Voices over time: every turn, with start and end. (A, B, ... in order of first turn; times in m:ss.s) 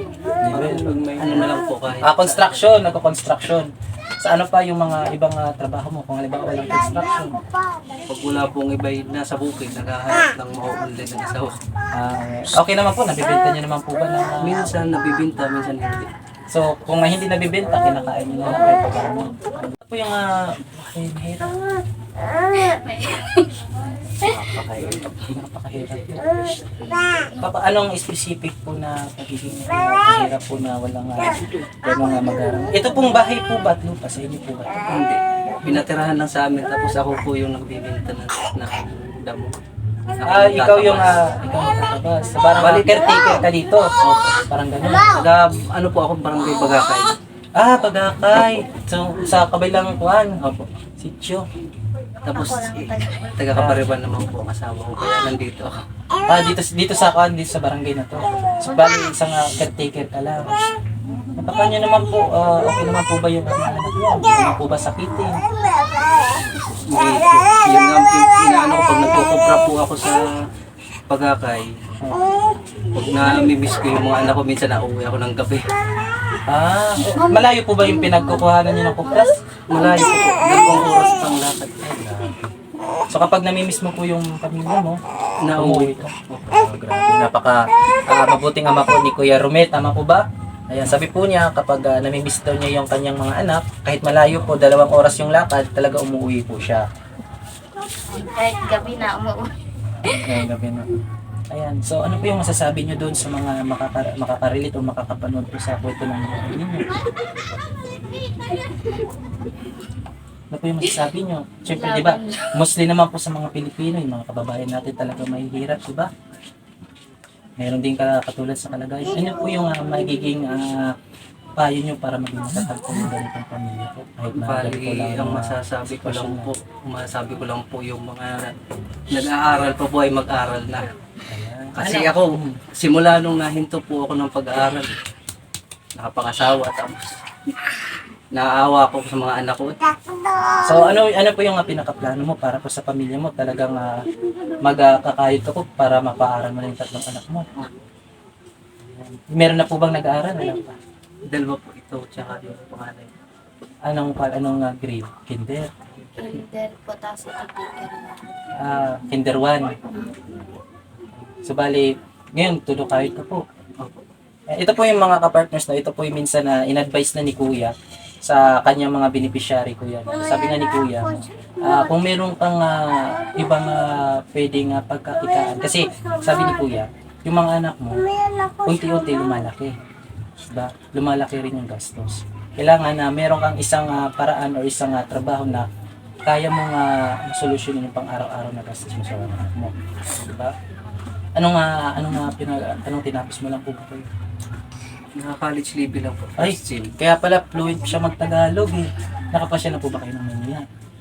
0:00.5-0:02.7 A
0:00.5-0:01.5 B
0:02.0-0:07.4 B
0:08.1-0:11.6 A
0:11.9-0:14.8 B
0:14.4-0:16.1 A
0:16.5-0:21.6 B
0:22.6-0:23.6 C
0:24.2-0:25.1 A
0:24.3-0:26.4 B
0:27.4-0:34.8 B
0:34.9-0:39.5 A
0:40.2-0:41.2 A
0:40.2-0:43.9 B
0:42.6-0:43.5 A
0:44.0-0:44.4 A
0:44.5-0:45.2 B
0:45.0-0:47.2 A
0:47.6-0:51.5 B
0:52.3-0:55.8 A
0:52.3-0:53.4 C
0:53.6-0:53.9 B
0:56.3-1:00.5 B
1:01.4-1:05.4 B
1:06.9-1:10.3 A
1:11.1-1:11.8 A
1:12.9-1:15.7 A
1:16.5-1:19.4 B
1:19.7-1:21.8 A
1:20.6-1:20.9 B
1:21.8-1:22.5 B
1:23.1-1:25.0 B
1:25.4-1:26.6 A
1:25.6-1:36.8 B
1:38.1-1:39.5 C
1:40.0-1:40.9 B
1:41.5-1:46.9 B
1:50.5-1:56.1 B
1:51.7-1:52.5 C
1:57.6-2:00.9 B
2:01.6-2:06.5 B
2:04.4-2:08.5 A
2:09.1-2:10.9 A
2:11.3-2:12.6 B
2:11.8-2:15.0 A
2:16.0-2:17.1 A
2:18.3-2:20.0 A
2:20.6-2:24.0 B
2:24.6-2:27.5 B
2:29.0-2:30.8 B
2:31.3-2:33.1 A
2:33.8-2:35.7 B
2:36.2-2:38.2 C
2:38.6-2:39.7 B
2:40.0-2:40.3 C
2:41.4-2:43.4 B
2:44.5-2:59.8 B
3:00.4-3:05.7 B
3:06.2-3:10.5 B
3:11.4-3:14.1 B
3:15.2-3:16.9 A
3:16.4-3:20.7 B